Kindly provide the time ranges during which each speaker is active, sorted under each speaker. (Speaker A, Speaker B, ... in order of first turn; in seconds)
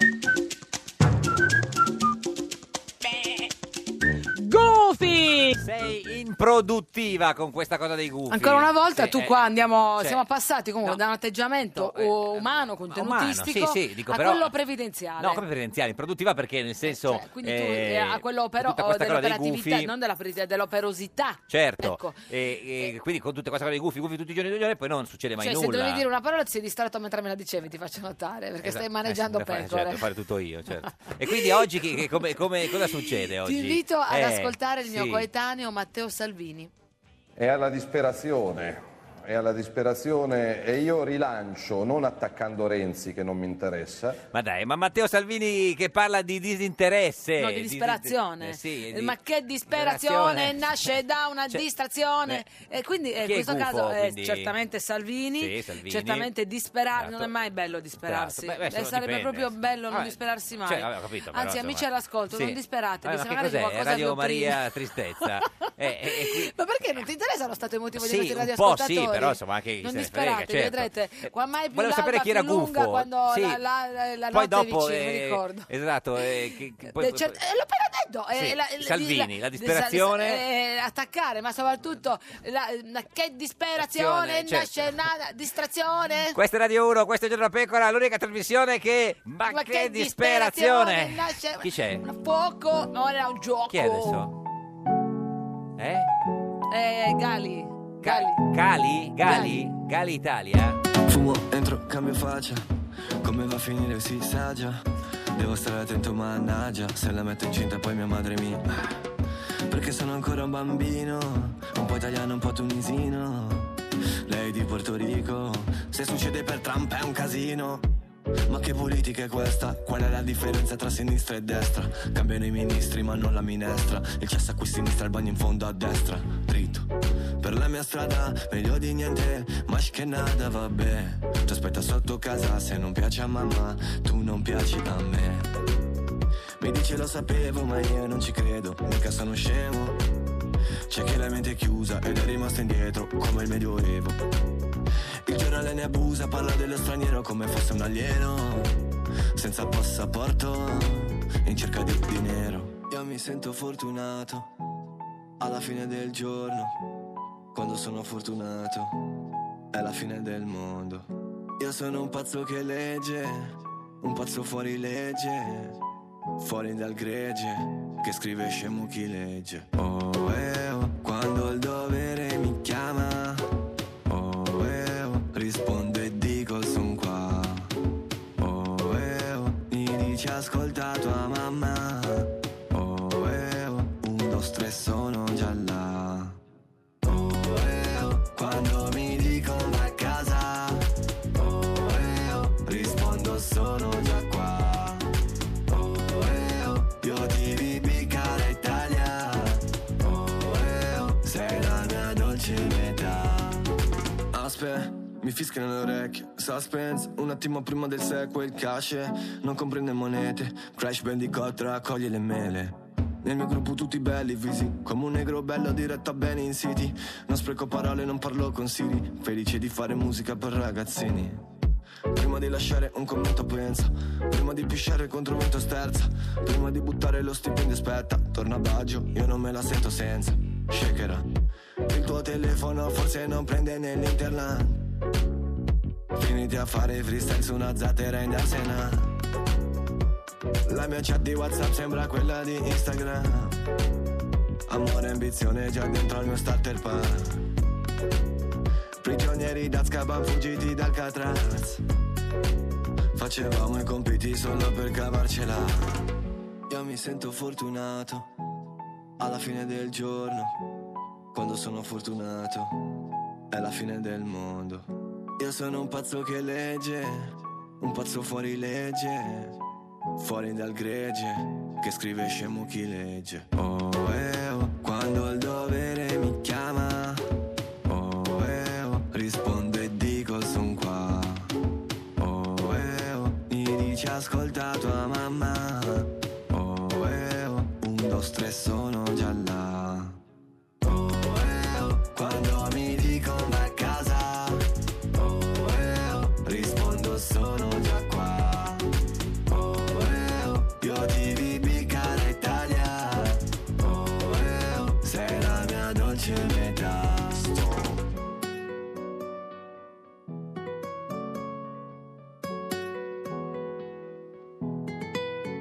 Speaker A: 4.3-5.5, 8.3-15.4, 16.8-22.3, 25.4-30.0, 31.2-32.0, 32.7-36.7, 47.4-64.6, 66.1-75.7, 76.9-86.4, 89.5-94.2, 96.7-98.4, 99.2-99.6
Speaker B: 5.5-9.4, 11.7-14.5, 15.2-19.9, 21.5-26.0, 28.6-35.2, 44.3-49.2, 49.7-50.9, 53.2-54.5, 55.4-56.3, 57.0-57.3, 58.0-66.5, 68.0-73.6, 74.3-77.4, 78.3-80.4, 83.8-85.1, 86.3-92.0, 93.7-94.3, 95.8-96.1, 98.0-100.8
Speaker C: 37.4-44.2
Speaker D: 101.0-102.7, 103.2-108.9, 109.7-117.9, 118.5-135.5, 136.6-140.0, 140.9-144.2, 145.2-154.5, 155.4-156.8, 157.5-159.1, 159.7-165.8, 166.4-173.4, 174.1-177.7, 178.4-186.4, 187.0-195.1, 195.7-203.7, 204.3-221.5, 222.1-231.3, 231.9-234.8, 236.1-239.1, 240.7-243.6, 244.7-247.4, 249.0-251.8, 253.1-256.1, 256.7-258.3, 259.2-260.6, 261.3-262.9, 263.5-269.6, 270.2-277.2, 277.8-281.5, 282.2-290.2, 290.8-298.9, 299.5-307.9